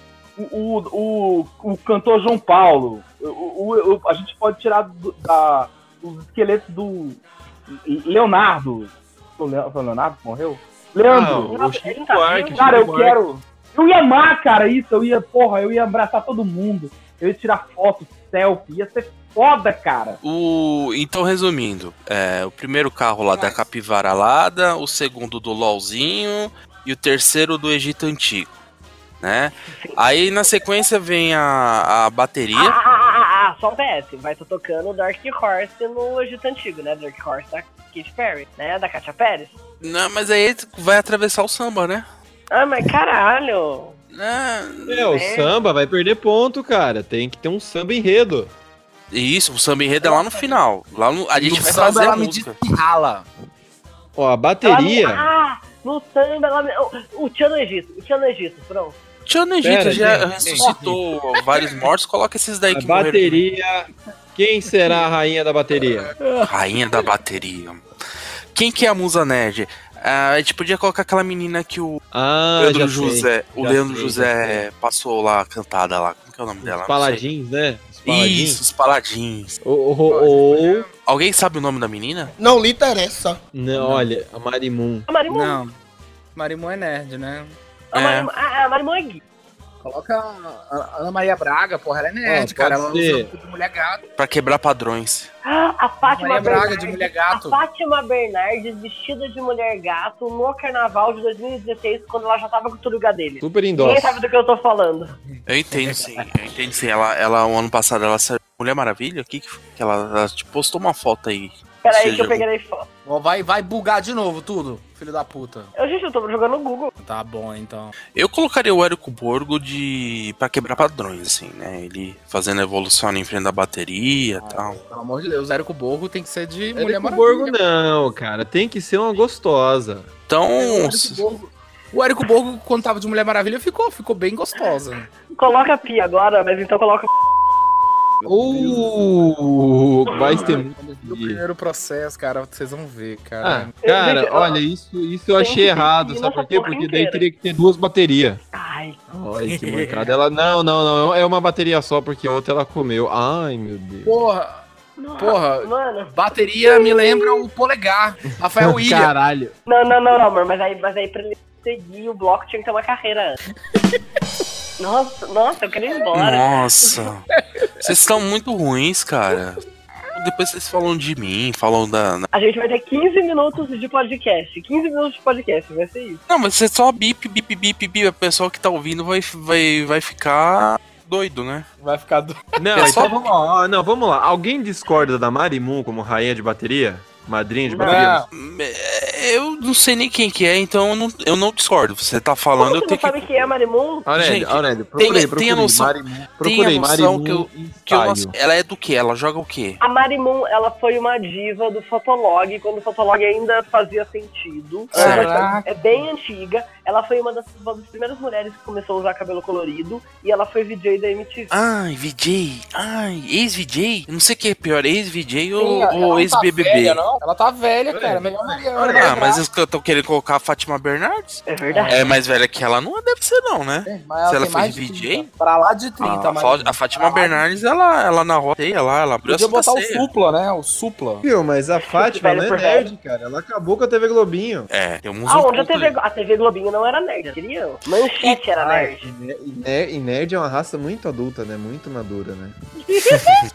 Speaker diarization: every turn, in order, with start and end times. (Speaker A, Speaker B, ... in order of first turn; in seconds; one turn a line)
Speaker A: 0.4-11.6
Speaker B: 11.1-13.2
Speaker C: 11.5-12.7
Speaker A: 12.5-20.2
Speaker D: 20.2-28.5
Speaker D: 29.2-32.8
Speaker C: 32.5-39.5
Speaker D: 39.8-42.0
Speaker C: 42.5-44.0
Speaker D: 44.1-45.1
Speaker B: 44.9-48.5
Speaker C: 45.1-45.5
Speaker D: 49.1-52.6
Speaker C: 50.0-50.6
Speaker E: 51.4-53.3
Speaker B: 54.1-55.2
Speaker C: 54.6-59.0
Speaker D: 59.2-63.4
Speaker B: 59.6-60.6
Speaker E: 60.4-61.4
Speaker B: 62.7-66.1
Speaker E: 66.2-66.5
Speaker D: 66.5-67.8
Speaker D: 68.5-72.0
Speaker B: 72.1-74.6
Speaker D: 72.6-77.2
Speaker B: 76.6-78.6
Speaker D: 78.0-79.6
Speaker B: 79.6-80.8
Speaker E: 80.1-80.9
Speaker D: 81.0-82.3
Speaker B: 83.5-85.1
Speaker E: 83.8-84.1
Speaker C: 85.1-85.6
Speaker E: 85.2-85.8
Speaker E: 86.3-87.6
Speaker D: 87.9-88.3
Speaker C: 87.9-89.2
Speaker E: 89.8-94.0
Speaker B: 92.2-93.3
Speaker D: 94.2-95.3
Speaker C: 95.4-105.2
Speaker E: 96.0-97.6
Speaker B: 103.4-104.2
Speaker D: 105.5-112.5
Speaker E: 105.7-106.3
Speaker C: 111.8-112.8
Speaker E: 113.0-115.7
Speaker C: 115.7-116.9
Speaker E: 117.0-117.9
Speaker D: 118.1-124.8
Speaker E: 124.4-127.5
Speaker B: 126.7-130.1
Speaker D: 130.3-131.2
Speaker E: 130.6-135.1
Speaker C: 135.3-137.1
Speaker E: 138.2-138.9
Speaker B: 138.2-141.4
Speaker E: 140.2-143.7
Speaker B: 143.4-148.4
Speaker C: 143.8-144.6
Speaker C: 145.3-147.3
Speaker C: 148.5-149.0
Speaker B: 149.1-154.2
Speaker E: 149.4-150.2
Speaker E: 154.0-154.6
Speaker C: 155.0-157.4
Speaker E: 155.2-159.5
Speaker B: 158.6-159.1
Speaker C: 159.7-163.4
Speaker C: 164.8-166.9
Speaker D: 166.1-167.2
Speaker E: 167.4-167.9
Speaker D: 167.8-169.6
Speaker D: 170.1-172.3
Speaker C: 172.3-176.2
Speaker D: 176.3-181.7
Speaker E: 181.8-183.1
Speaker B: 182.6-188.2
Speaker D: 182.8-183.3
Speaker C: 187.7-188.1
Speaker E: 187.7-188.3
Speaker D: 188.3-193.5
Speaker C: 192.6-194.1
Speaker B: 194.0-198.3
Speaker D: 194.1-199.8
Speaker C: 199.8-211.5
Speaker E: 204.9-206.0
Speaker D: 204.9-205.5
Speaker D: 211.5-217.1
Speaker E: 215.6-219.4
Speaker B: 217.9-219.2
Speaker D: 218.8-225.3
Speaker C: 221.4-222.1
Speaker E: 221.7-222.1
Speaker E: 223.8-227.4
Speaker D: 226.0-230.1
Speaker E: 229.2-231.2
Speaker B: 231.2-234.7
Speaker C: 231.9-232.9
Speaker D: 234.7-236.0
Speaker C: 235.2-239.1
Speaker B: 238.2-242.5